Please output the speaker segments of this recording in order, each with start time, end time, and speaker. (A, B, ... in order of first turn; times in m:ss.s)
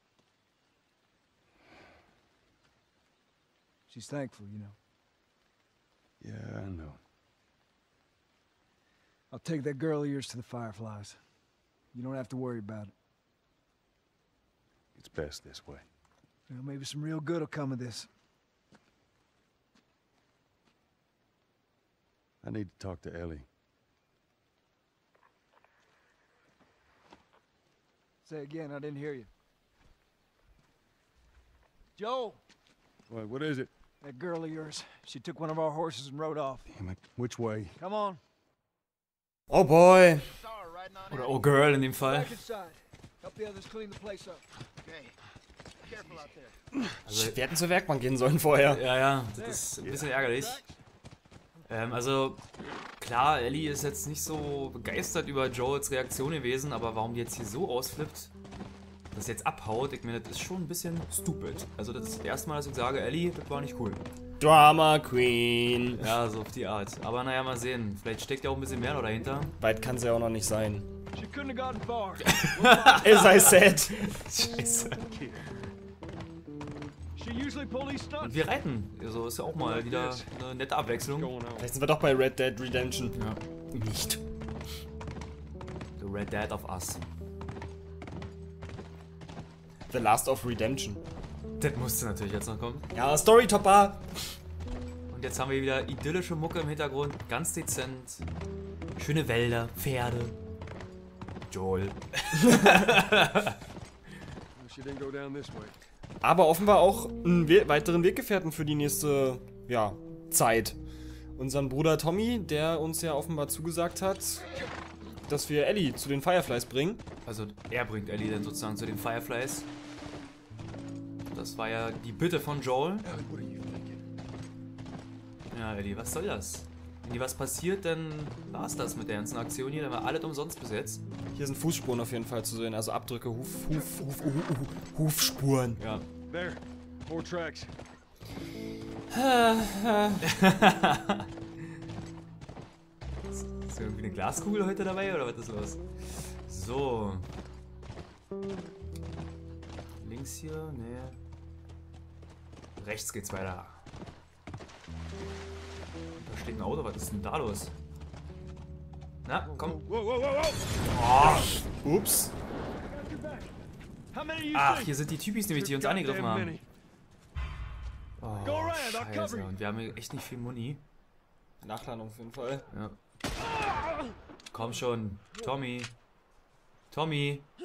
0:03.9-0:04.8 A
0:06.2-0:07.0 B
0:09.3-0:11.2 A
0:11.9-0:12.9 A
0:15.0-0:15.8 B
0:16.5-0:18.1 A
0:22.4-0:23.5 B
0:28.2-0:29.3 A
0:32.0-0:32.4 A
0:33.1-0:33.7 B
0:34.0-0:36.7 A
0:36.7-0:37.8 B
0:37.8-0:38.2 A
0:39.5-0:40.4 C
0:41.1-0:42.4 D
0:42.0-0:44.4 A
0:47.0-0:47.4 D
0:47.1-0:48.8 C
0:48.6-0:50.6 D
0:49.4-0:49.6 A
0:51.7-0:52.4 D
0:53.0-0:58.3 D
0:59.1-1:04.0 D
1:04.4-1:06.1 C
1:06.0-1:09.5 D
1:09.6-1:10.9 C
1:11.2-1:12.3 A
1:12.2-1:15.3 D
1:12.7-1:14.1 C
1:17.2-1:18.2 A
1:18.2-1:21.4 D
1:21.6-1:23.2 C
1:23.1-1:24.2 D
1:26.0-1:27.0 D
1:29.9-1:31.0 C
1:31.6-1:32.9 D
1:32.9-1:34.0 C
1:35.1-1:38.3 D
1:39.0-1:40.4 D
1:41.5-1:43.6 D
1:42.4-1:42.8 C
1:46.2-1:50.8 C
1:51.4-1:54.4 C
1:55.3-1:57.0 C
1:57.2-1:59.7 D
2:01.3-2:03.1 D
2:03.1-2:03.9 B
2:05.5-2:11.0 D
2:11.3-2:15.8 C
2:15.8-2:16.0 D
2:19.1-2:20.2 C
2:20.2-2:21.3 D
2:23.3-2:25.8 D
2:26.5-2:27.3 D
2:30.0-2:31.2 D
2:32.8-2:33.8 D
2:36.2-2:37.7 D
2:39.2-2:39.9 D
2:40.9-2:41.6 D
2:41.2-2:42.3 C
2:44.5-2:46.6 D
2:48.2-2:50.8 D
2:51.6-2:52.6 C
2:52.7-2:53.0 D
2:54.5-2:55.9 D
2:56.9-2:57.5 D